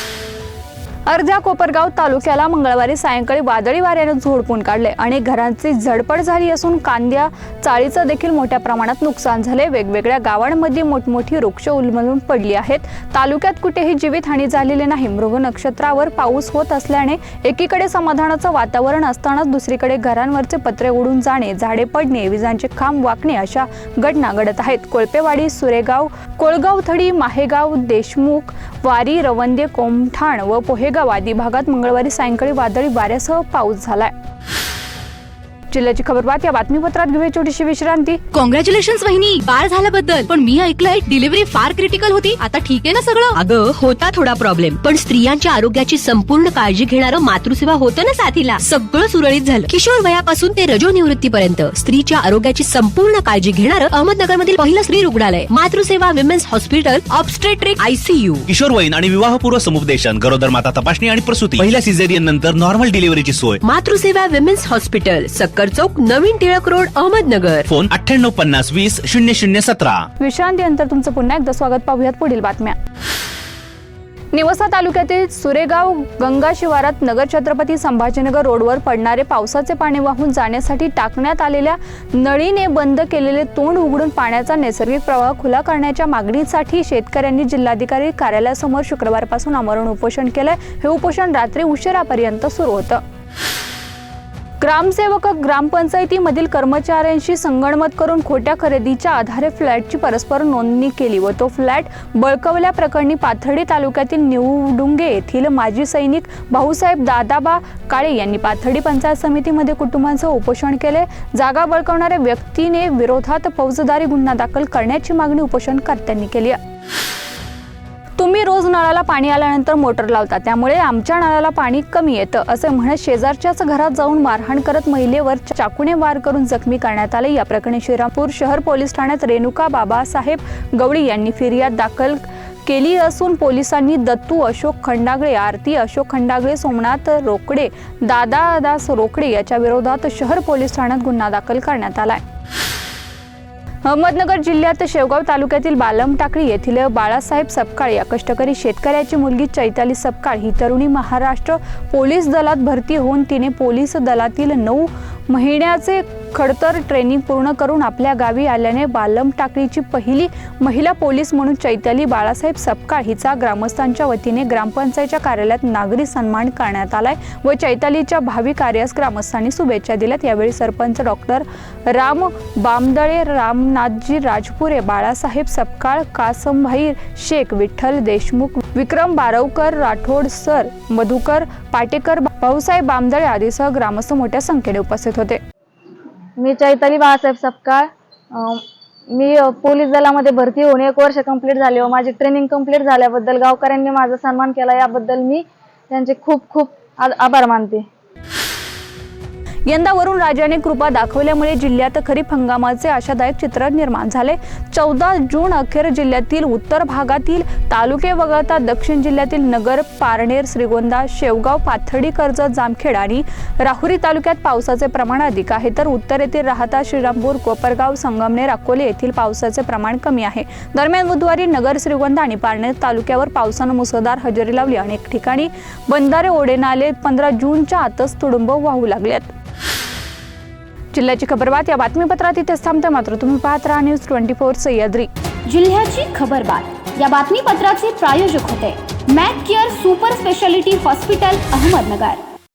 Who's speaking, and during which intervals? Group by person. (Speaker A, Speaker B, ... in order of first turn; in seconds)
Speaker A: 1.1-34.1, 35.7-38.2, 70.2-72.8, 74.3-93.0, 94.6-116.6, 118.2-142.2, 143.8-185.4, 199.7-229.3, 230.9-235.1
Speaker B: 38.3-43.4
Speaker C: 43.3-58.5, 63.6-67.7
Speaker D: 58.5-63.6, 67.7-70.1
Speaker E: 186.3-197.9
Speaker F: 235.4-242.2